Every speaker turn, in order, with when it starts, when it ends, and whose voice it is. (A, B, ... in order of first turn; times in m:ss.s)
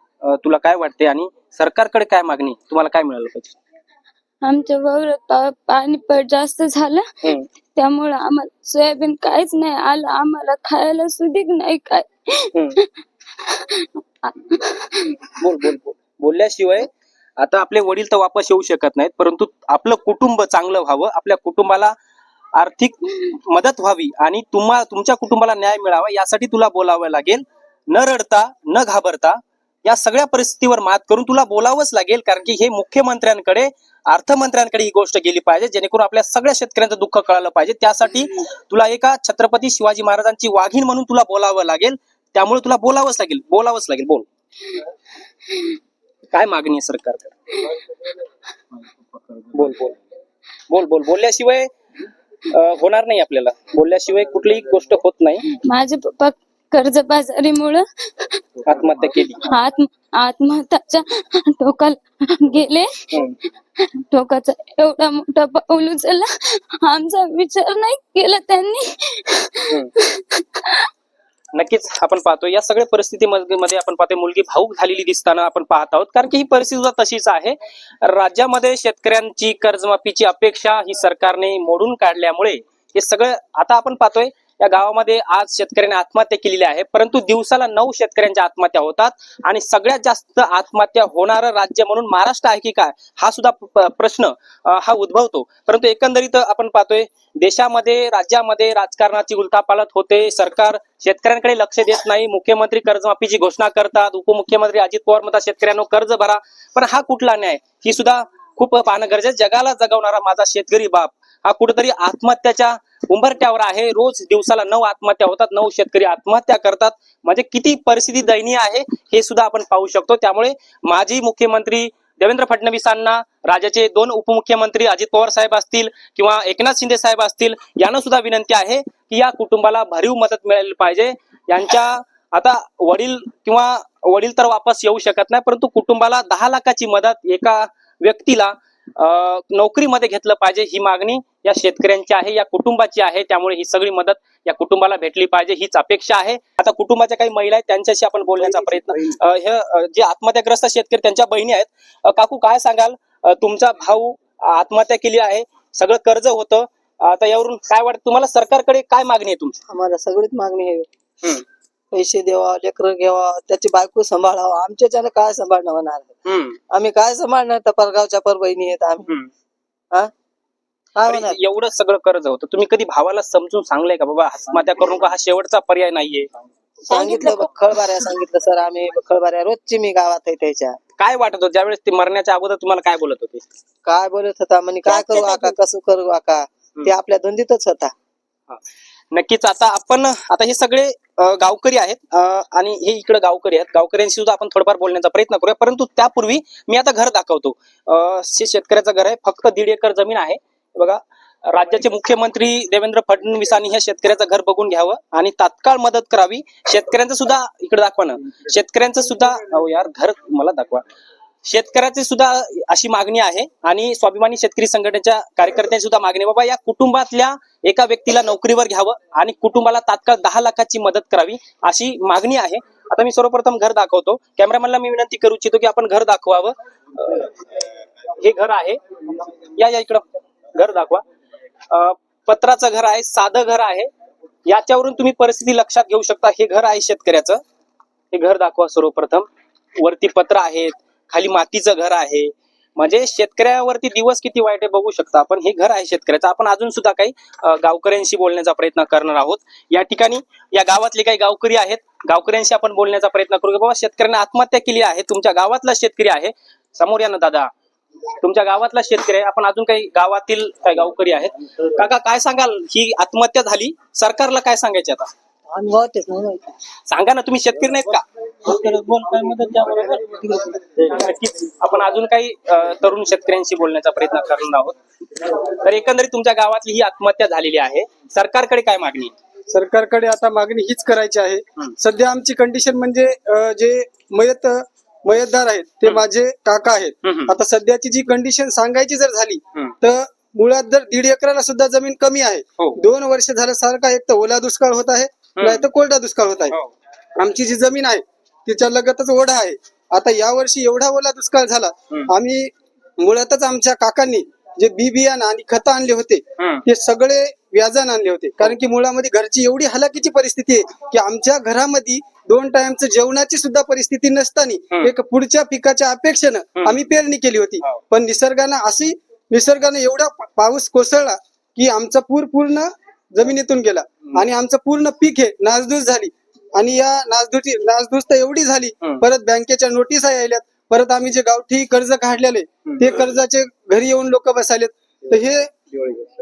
0:00.2-0:03.6 A
0:04.4-0:07.2 B
0:07.7-0:15.2 B
0:15.2-0:22.0 A
0:22.6-0:44.3 A
0:46.3-0:47.7 A
0:49.4-0:50.0 A
0:50.7-0:51.7 A
0:52.5-0:55.4 A
0:55.5-0:58.4 B
0:58.6-0:59.5 A
0:59.4-1:03.2 B
1:03.8-1:10.9 B
1:11.5-2:39.6 A
2:39.7-2:40.9 C
2:41.9-2:46.2 C
2:46.3-2:46.6 A
2:46.7-2:49.1 C
2:51.0-2:51.4 C
2:51.0-2:56.3 A
2:56.9-3:00.8 C
2:57.0-2:57.3 B
3:01.0-3:03.4 A
3:03.9-3:07.9 C
3:04.9-3:05.5 A
3:09.1-3:30.8 A
3:31.4-3:47.3 A
3:48.1-3:48.8 A
3:49.5-3:50.0 A
3:50.6-3:51.0 A
3:51.7-3:53.9 A
3:54.5-3:57.4 A
3:58.1-4:17.5 A
4:18.2-4:25.1 A
4:25.5-4:26.6 C
4:26.9-4:39.1 A
4:39.5-4:56.6 D
4:47.0-4:47.4 A
4:55.4-4:55.7 A
4:57.2-5:35.6 D
5:06.4-5:06.6 A
5:32.7-5:33.0 A